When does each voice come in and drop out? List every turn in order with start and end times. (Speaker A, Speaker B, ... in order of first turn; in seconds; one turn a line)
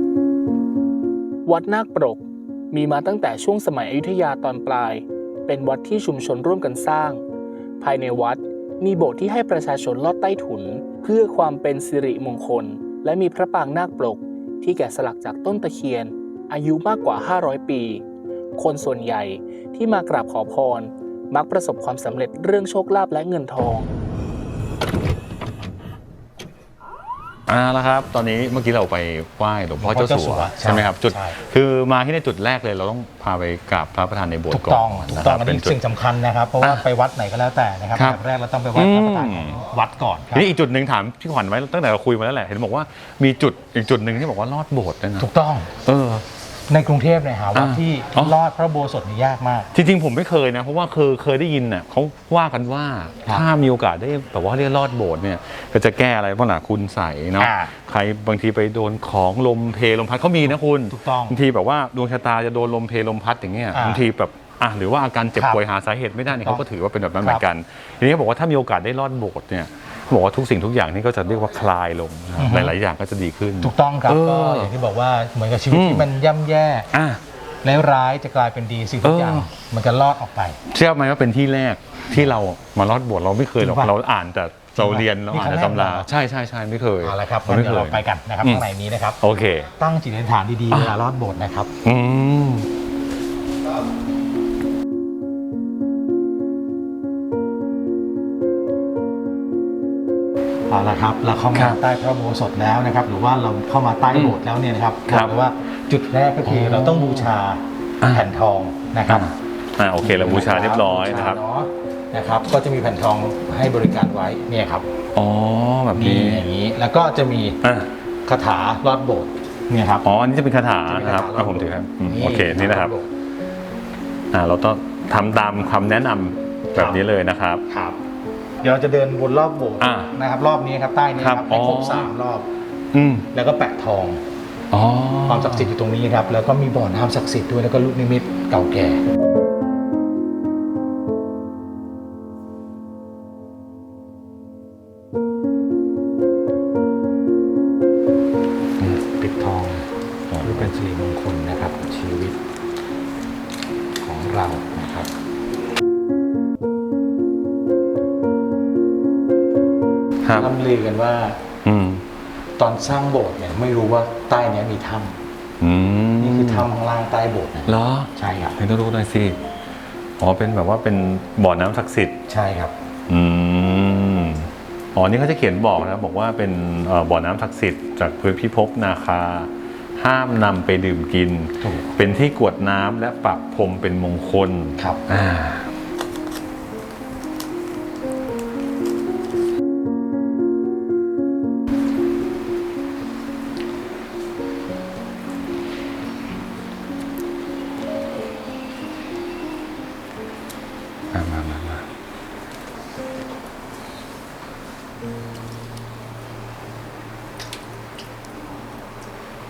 Speaker A: 1.5-7.2
Speaker A: 7.8-18.0
Speaker A: 18.6-23.9
Speaker B: 27.5-35.8
Speaker C: 29.8-31.4
Speaker C: 34.5-40.5
Speaker B: 36.6-36.9
Speaker B: 38.0-38.2
Speaker B: 38.8-39.6
Speaker B: 40.3-45.3
Speaker C: 45.2-45.7
Speaker B: 45.8-46.2
Speaker C: 46.7-49.7
Speaker B: 47.5-48.4
Speaker B: 49.7-74.7
Speaker C: 57.4-57.7
Speaker C: 60.9-61.4
Speaker C: 63.7-64.0
Speaker C: 65.4-65.6
Speaker C: 66.3-66.7
Speaker C: 72.4-72.7
Speaker C: 73.6-76.9
Speaker B: 75.7-76.1
Speaker B: 76.9-77.2
Speaker C: 77.6-80.6
Speaker B: 79.0-79.5
Speaker B: 80.7-88.7
Speaker C: 83.6-83.9
Speaker C: 84.8-86.1
Speaker C: 87.0-89.2
Speaker B: 89.2-89.7
Speaker C: 89.8-91.7
Speaker B: 91.8-92.7
Speaker C: 100.7-109.3
Speaker B: 101.5-101.8
Speaker B: 104.1-104.4
Speaker B: 105.1-105.3
Speaker B: 106.4-107.3
Speaker B: 108.0-108.3
Speaker B: 109.1-111.4
Speaker C: 110.0-114.9
Speaker B: 115.2-116.5
Speaker C: 116.0-117.6
Speaker B: 117.6-117.9
Speaker C: 118.3-120.1
Speaker B: 120.0-122.9
Speaker C: 120.9-123.1
Speaker B: 124.3-127.6
Speaker C: 127.7-128.0
Speaker C: 128.6-132.5
Speaker B: 129.8-130.1
Speaker B: 131.2-132.1
Speaker B: 132.9-133.3
Speaker C: 133.3-134.2
Speaker B: 134.7-135.7
Speaker C: 135.3-139.0
Speaker C: 148.8-149.8
Speaker B: 150.3-150.7
Speaker C: 150.4-152.4
Speaker C: 154.0-155.1
Speaker B: 160.2-160.5
Speaker C: 160.3-161.4
Speaker B: 161.7-162.0
Speaker C: 162.6-165.2
Speaker B: 165.6-166.7
Speaker C: 166.2-168.6
Speaker B: 167.7-169.4
Speaker B: 170.2-172.2
Speaker C: 172.3-172.7
Speaker B: 173.1-185.7
Speaker C: 181.6-182.0
Speaker B: 201.1-201.8